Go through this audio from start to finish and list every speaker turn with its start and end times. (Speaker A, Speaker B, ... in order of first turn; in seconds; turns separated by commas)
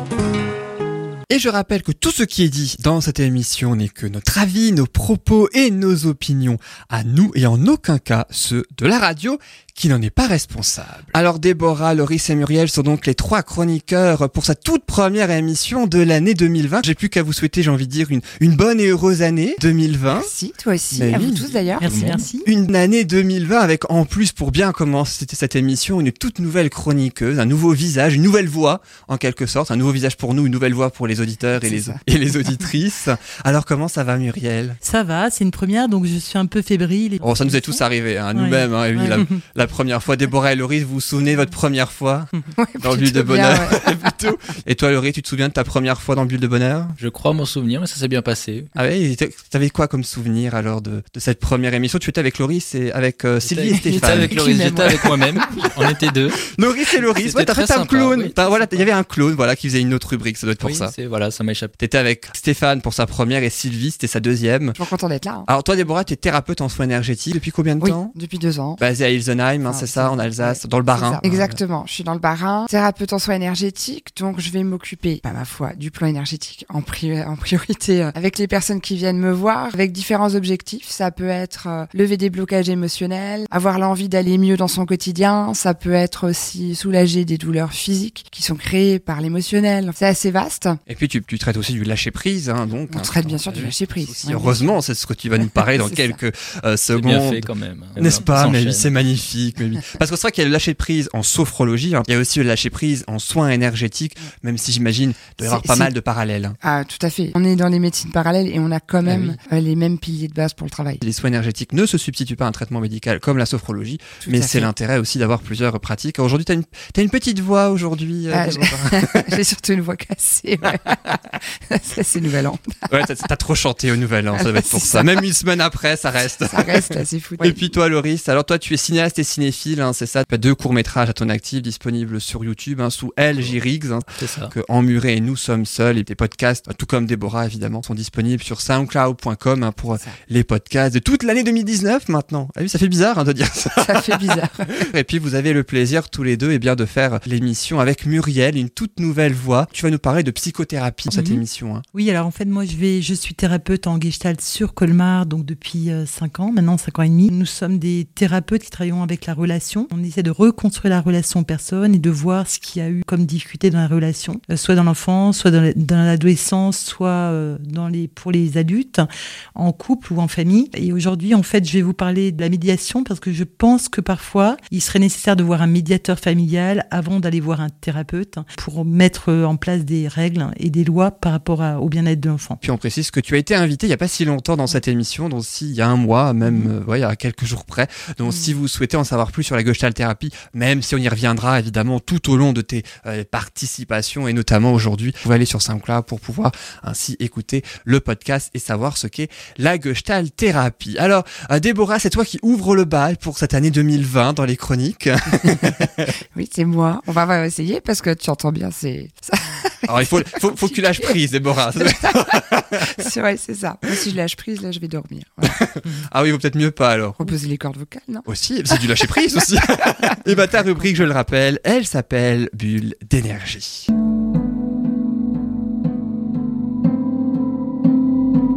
Speaker A: 1.3-20.3, Speaker B: 20.1-22.0, Speaker A: 20.9-21.5, Speaker C: 21.8-22.5, Speaker D: 21.8-22.2, Speaker A: 22.4-34.8, Speaker B: 31.6-32.0, Speaker C: 34.8-37.8, Speaker A: 37.2-42.3, Speaker C: 38.3-39.4, Speaker B: 42.5-44.0, Speaker A: 42.8-47.0, Speaker D: 47.0-48.7, Speaker A: 48.7-54.4, Speaker D: 53.4-56.4, Speaker B: 53.7-55.1, Speaker A: 56.5-60.9, Speaker D: 57.2-58.8, Speaker D: 60.6-61.7, Speaker A: 61.8-64.8, Speaker B: 64.8-65.5, Speaker A: 65.5-68.1, Speaker B: 67.8-68.8, Speaker A: 68.8-71.6, Speaker B: 69.7-90.8, Speaker A: 90.9-106.6, Speaker B: 92.9-94.7, Speaker D: 93.5-94.7, Speaker B: 95.4-96.2, Speaker D: 96.9-98.9, Speaker B: 105.4-105.9, Speaker B: 106.6-111.0, Speaker D: 109.0-109.4, Speaker A: 111.0-119.3, Speaker B: 114.2-114.7, Speaker B: 118.3-122.9, Speaker A: 122.9-151.8, Speaker B: 124.3-125.1, Speaker B: 126.5-127.7, Speaker D: 134.2-134.5, Speaker B: 143.8-144.7, Speaker B: 151.1-151.4, Speaker C: 151.9-182.6, Speaker A: 182.6-206.1, Speaker B: 206.3-211.2, Speaker A: 209.9-213.0, Speaker B: 211.8-215.6, Speaker A: 215.5-217.3, Speaker B: 217.2-218.8, Speaker A: 218.3-223.9